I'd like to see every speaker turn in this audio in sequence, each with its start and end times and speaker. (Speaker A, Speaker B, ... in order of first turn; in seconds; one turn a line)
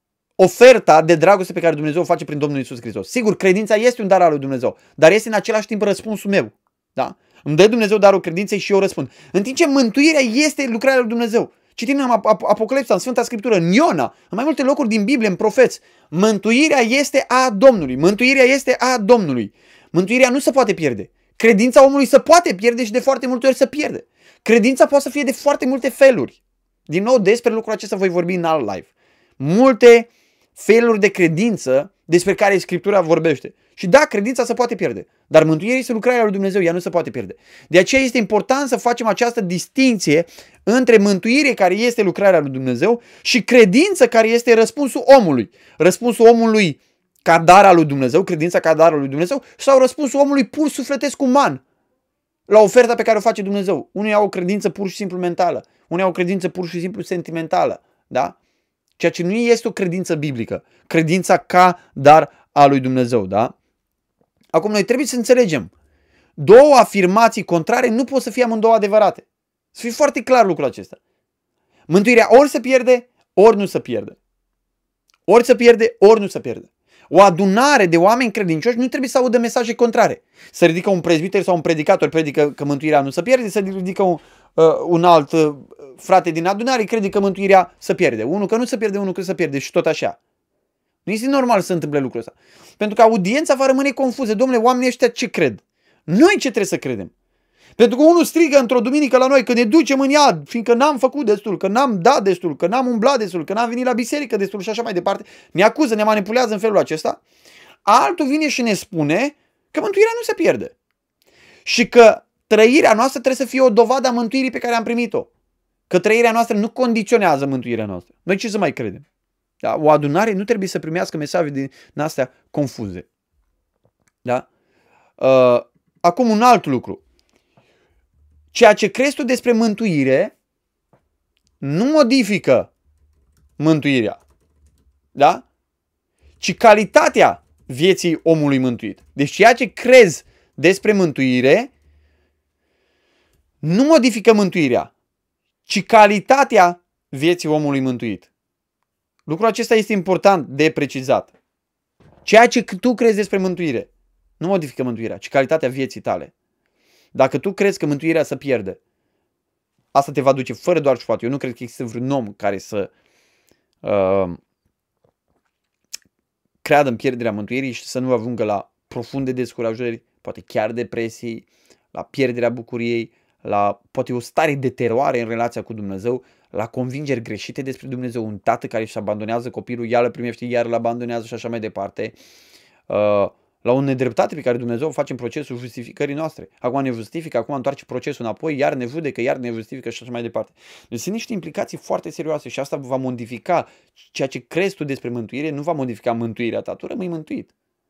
Speaker A: 0.4-51.6
Speaker A: 52.5-58.4
Speaker A: 59.0-63.5
Speaker A: 64.5-65.7
Speaker A: 66.4-71.0
Speaker A: 71.9-74.2
Speaker A: 75.3-90.2
Speaker A: 91.0-97.1
Speaker A: 97.8-107.2
Speaker A: 107.8-110.7
Speaker A: 111.6-115.3
Speaker A: 115.9-119.0
Speaker A: 119.6-123.0
Speaker A: 125.2-127.0
Speaker A: 128.5-130.3
Speaker A: 131.6-132.7
Speaker A: 133.6-134.2
Speaker A: 135.1-135.4
Speaker A: 136.4-141.7
Speaker A: 143.6-144.9
Speaker A: 145.7-148.3
Speaker A: 149.3-151.3
Speaker A: 152.2-153.9
Speaker A: 154.4-156.3
Speaker A: 157.1-158.8
Speaker A: 159.9-162.9
Speaker A: 163.8-164.4
Speaker A: 166.6-182.2
Speaker A: 182.9-197.5